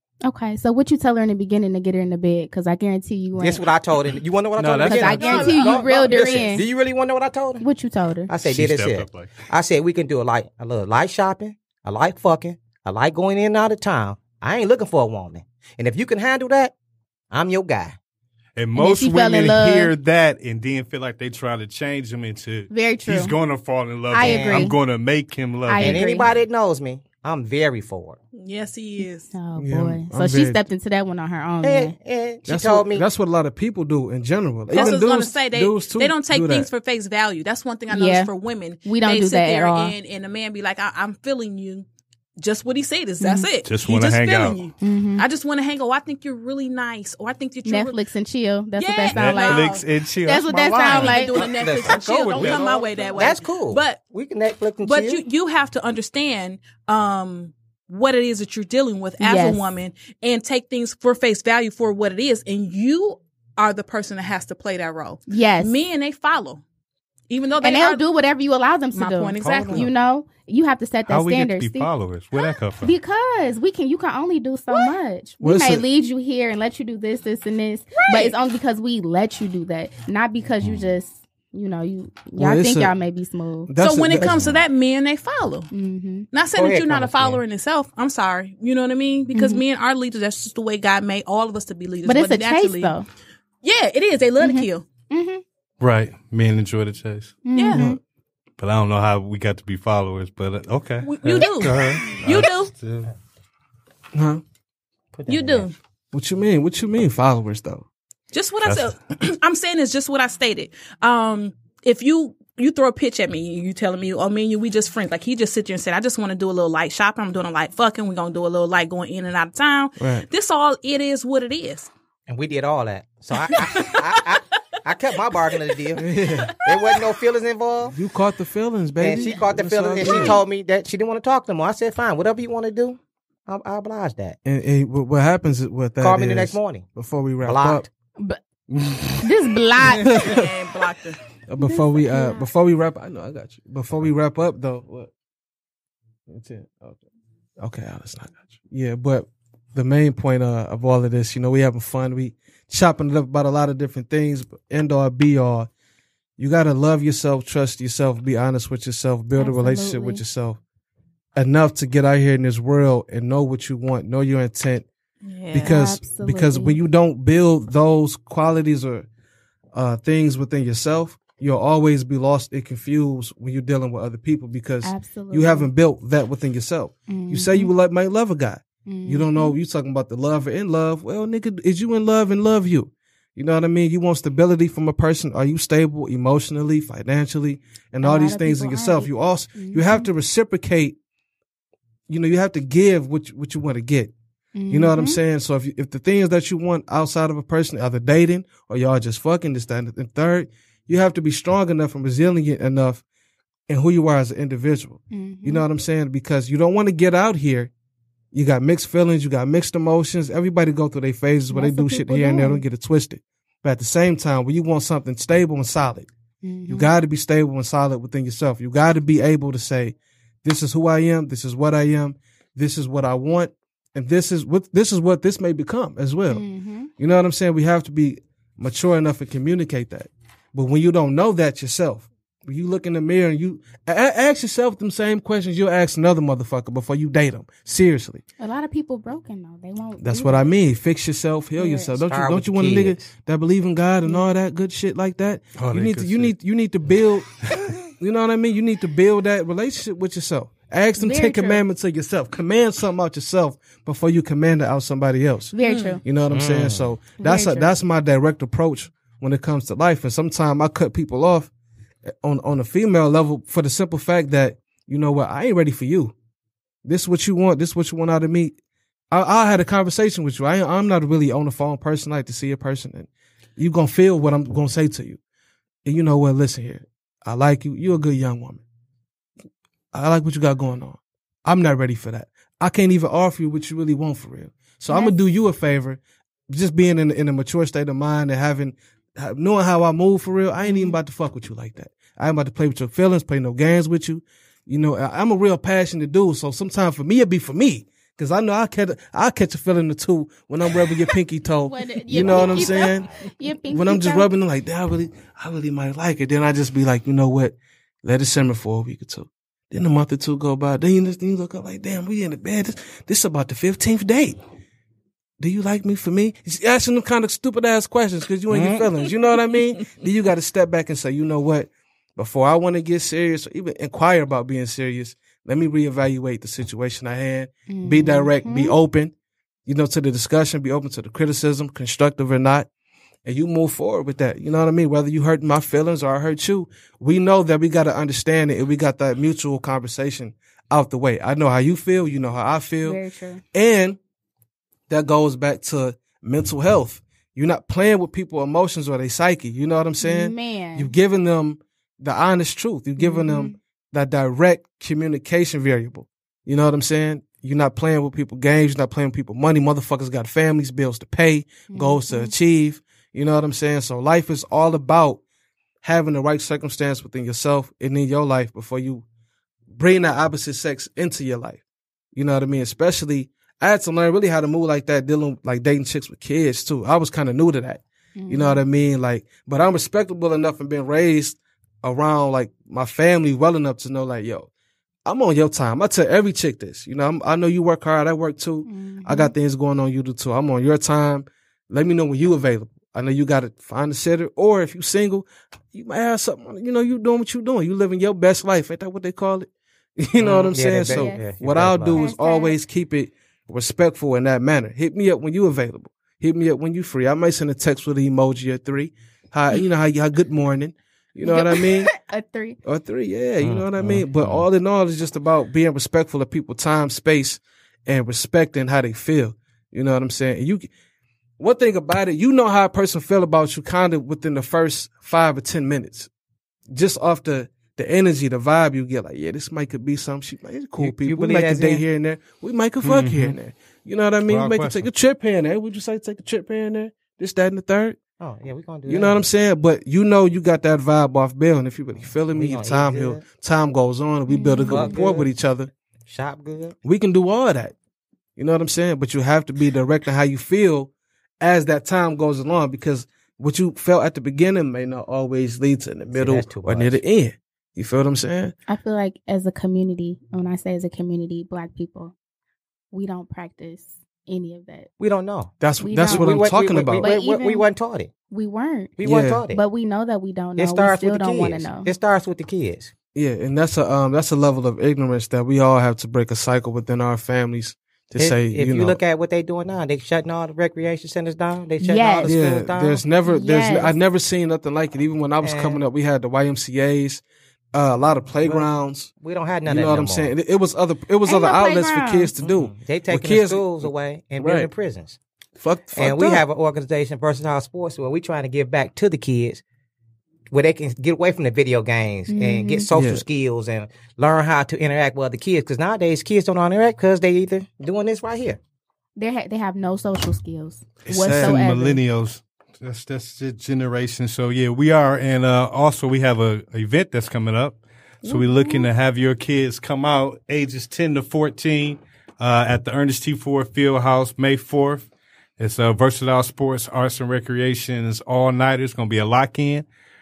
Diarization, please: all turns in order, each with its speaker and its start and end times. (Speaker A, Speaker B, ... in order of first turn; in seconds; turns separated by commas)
Speaker A: 0.2-3.6, Speaker B: 3.4-7.6, Speaker C: 4.6-6.3, Speaker A: 4.8-6.7, Speaker A: 7.6-8.3, Speaker B: 8.3-16.7, Speaker C: 8.4-9.4, Speaker B: 17.3-18.0, Speaker C: 18.6-26.0, Speaker A: 18.8-19.9, Speaker A: 22.7-23.4, Speaker A: 24.1-24.8, Speaker B: 24.2-24.7, Speaker A: 25.7-26.3, Speaker B: 25.8-28.2, Speaker D: 28.3-29.3, Speaker A: 29.3-31.9, Speaker E: 29.6-30.6, Speaker B: 31.6-33.1, Speaker E: 32.5-36.7, Speaker D: 34.7-41.9, Speaker A: 37.9-38.3, Speaker A: 38.9-40.0, Speaker D: 42.4-48.0, Speaker A: 43.2-43.5, Speaker C: 43.6-44.6, Speaker A: 44.8-45.2, Speaker A: 47.6-51.4, Speaker D: 48.8-49.9, Speaker C: 49.1-53.2, Speaker B: 50.5-52.5, Speaker D: 50.9-54.0, Speaker A: 53.0-53.3, Speaker B: 53.2-55.2, Speaker D: 54.8-66.6, Speaker A: 59.2-59.6, Speaker A: 65.3-65.8, Speaker D: 67.3-68.0, Speaker A: 67.6-71.9, Speaker D: 69.0-69.9, Speaker C: 69.4-69.9, Speaker C: 71.1-72.9, Speaker A: 72.8-84.4, Speaker E: 75.4-75.9, Speaker D: 78.0-78.3, Speaker C: 80.7-80.9, Speaker E: 82.4-82.9, Speaker E: 83.7-84.4, Speaker D: 83.8-85.7, Speaker A: 85.7-86.3, Speaker D: 86.3-93.0, Speaker B: 86.5-87.4, Speaker A: 89.3-89.6, Speaker A: 92.1-93.1, Speaker D: 93.6-94.8, Speaker A: 94.4-95.4, Speaker C: 95.8-97.4, Speaker A: 97.5-98.0, Speaker D: 97.5-97.8, Speaker E: 97.7-98.0, Speaker C: 98.6-103.1, Speaker D: 101.0-102.7, Speaker E: 104.1-104.4, Speaker B: 105.1-105.7, Speaker D: 105.3-105.8, Speaker E: 106.1-107.9, Speaker D: 108.3-121.9, Speaker C: 108.7-108.9, Speaker E: 120.0-120.3, Speaker B: 122.3-126.1, Speaker D: 123.5-124.2, Speaker E: 125.9-126.6, Speaker B: 126.6-128.0, Speaker D: 126.7-127.0, Speaker E: 127.9-130.4, Speaker B: 129.0-134.4, Speaker A: 130.0-130.4, Speaker E: 134.4-137.9, Speaker B: 136.0-136.9, Speaker B: 137.4-137.9, Speaker C: 138.7-140.1, Speaker A: 139.2-140.2, Speaker E: 140.1-140.5, Speaker D: 140.1-141.2, Speaker E: 141.5-145.1, Speaker A: 141.6-142.5, Speaker E: 146.3-147.0, Speaker E: 147.6-155.7, Speaker E: 156.4-160.6, Speaker A: 159.4-160.2, Speaker E: 161.3-164.9, Speaker D: 165.2-165.7, Speaker E: 165.5-169.1, Speaker A: 165.6-166.8, Speaker E: 169.7-191.0, Speaker A: 174.8-175.7, Speaker A: 177.1-177.7, Speaker A: 178.9-179.6, Speaker A: 188.0-190.1, Speaker E: 192.1-194.1, Speaker A: 194.6-195.2, Speaker E: 194.7-203.0, Speaker E: 203.7-207.7, Speaker A: 205.1-205.7, Speaker E: 208.3-216.1, Speaker A: 211.5-212.6, Speaker A: 216.4-216.9, Speaker E: 216.7-226.4, Speaker A: 226.3-226.9, Speaker E: 227.0-238.2, Speaker A: 238.4-240.5, Speaker E: 240.0-247.3, Speaker A: 241.6-241.9, Speaker B: 242.0-243.1, Speaker C: 245.6-246.3, Speaker E: 247.9-261.5, Speaker A: 251.0-251.6, Speaker A: 255.5-256.0, Speaker D: 255.6-256.0, Speaker B: 256.3-256.9, Speaker A: 257.2-257.7, Speaker E: 262.1-266.1, Speaker E: 266.9-268.5, Speaker E: 269.1-275.2, Speaker E: 275.9-278.6, Speaker E: 279.9-303.1, Speaker A: 284.9-285.1, Speaker A: 290.6-291.0, Speaker A: 301.7-304.3, Speaker E: 303.7-314.4, Speaker E: 315.4-329.1, Speaker B: 318.5-318.8, Speaker A: 327.7-328.8, Speaker E: 329.7-332.7, Speaker E: 333.2-343.0, Speaker A: 342.8-343.4, Speaker E: 343.5-344.0, Speaker E: 344.9-365.2, Speaker A: 350.0-350.9, Speaker A: 353.0-353.6, Speaker A: 361.7-362.3, Speaker E: 365.8-369.1, Speaker E: 369.7-371.6, Speaker E: 372.1-384.5, Speaker A: 378.2-378.7, Speaker E: 385.1-411.9, Speaker A: 388.7-389.3, Speaker B: 400.2-402.1, Speaker A: 400.9-401.2, Speaker A: 401.9-402.6, Speaker A: 411.2-412.6, Speaker E: 412.6-420.7, Speaker B: 413.4-414.4, Speaker E: 421.4-426.1, Speaker E: 426.7-438.0, Speaker B: 430.8-431.8, Speaker C: 432.8-433.4, Speaker C: 434.3-434.9, Speaker B: 438.2-439.2, Speaker E: 438.9-445.7, Speaker B: 442.3-443.2, Speaker A: 444.3-445.0, Speaker B: 444.7-445.3, Speaker B: 446.1-446.8, Speaker E: 446.8-447.8, Speaker E: 448.4-458.5, Speaker B: 456.1-457.0, Speaker A: 458.7-462.1, Speaker A: 462.9-464.9, Speaker B: 465.0-468.1, Speaker E: 465.6-467.1, Speaker A: 465.8-467.7, Speaker A: 468.3-469.0, Speaker B: 469.0-469.6, Speaker E: 469.0-469.4, Speaker A: 469.5-471.9, Speaker B: 470.6-472.9, Speaker E: 473.1-479.0, Speaker B: 478.2-483.0, Speaker A: 481.8-482.3, Speaker E: 482.2-489.1, Speaker A: 483.2-483.9, Speaker B: 485.4-485.8, Speaker B: 488.4-490.3, Speaker E: 489.6-494.7, Speaker A: 491.2-492.3, Speaker B: 492.4-495.2, Speaker E: 495.6-496.4, Speaker B: 496.0-499.6, Speaker B: 500.5-508.6, Speaker A: 502.3-502.9, Speaker E: 502.9-503.2, Speaker A: 509.2-512.0, Speaker E: 511.1-511.6, Speaker C: 511.2-529.9, Speaker A: 518.2-518.9